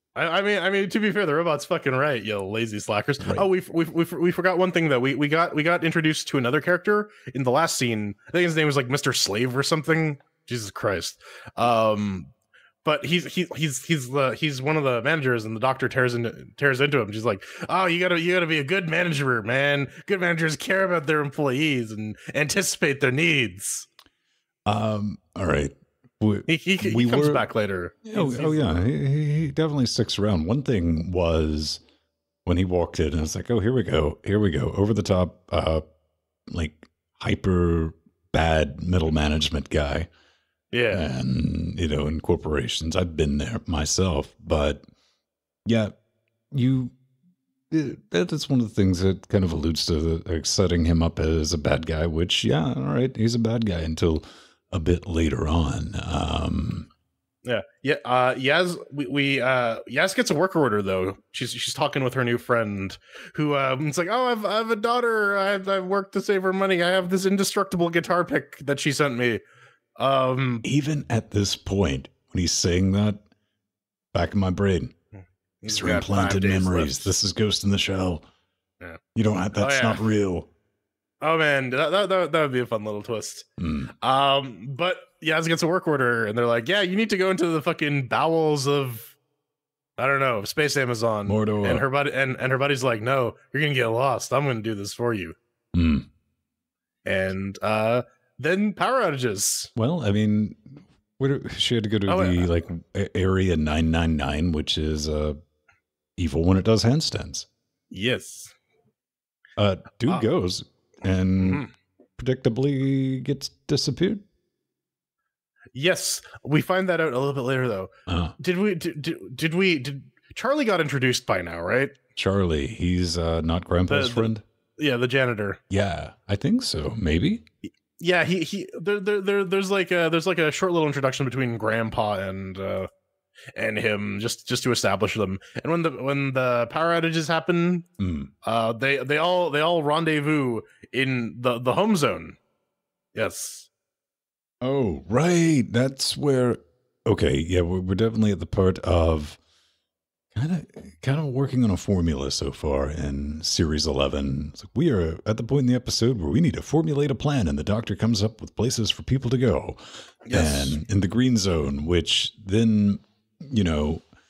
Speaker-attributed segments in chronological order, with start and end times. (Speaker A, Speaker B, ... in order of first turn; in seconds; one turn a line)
Speaker A: 0.1-12.3
Speaker B: 3.2-3.5
Speaker A: 12.8-23.9
Speaker B: 24.6-27.5
Speaker A: 26.5-28.8
Speaker B: 28.0-31.8
Speaker B: 32.4-35.8
Speaker B: 36.5-40.1
Speaker A: 40.7-41.0
Speaker B: 40.9-44.8
Speaker B: 45.6-46.0
Speaker B: 46.5-46.9
Speaker B: 47.7-56.9
Speaker A: 57.4-69.4
Speaker A: 70.0-70.6
Speaker B: 70.6-73.2
Speaker B: 74.1-74.9
Speaker A: 75.6-77.1
Speaker B: 75.7-78.2
Speaker B: 79.1-80.5
Speaker A: 79.5-80.0
Speaker A: 81.2-83.5
Speaker B: 83.6-83.9
Speaker A: 84.0-89.1
Speaker A: 90.0-95.4
Speaker B: 91.2-91.8
Speaker B: 95.7-96.1
Speaker A: 97.0-99.7
Speaker B: 99.8-105.4
Speaker A: 102.1-102.5
Speaker B: 106.2-107.5
Speaker A: 107.9-108.5
Speaker B: 109.6-111.7
Speaker A: 111.4-111.7
Speaker B: 112.2-114.2
Speaker A: 115.7-122.0
Speaker B: 118.1-118.4
Speaker B: 122.2-124.4
Speaker A: 123.9-125.6
Speaker B: 125.7-127.4
Speaker A: 128.0-132.9
Speaker A: 133.6-137.9
Speaker B: 138.0-138.3
Speaker A: 138.4-142.4
Speaker A: 143.1-143.7
Speaker B: 144.6-149.4
Speaker B: 150.3-159.8
Speaker A: 160.2-160.8
Speaker B: 160.3-164.0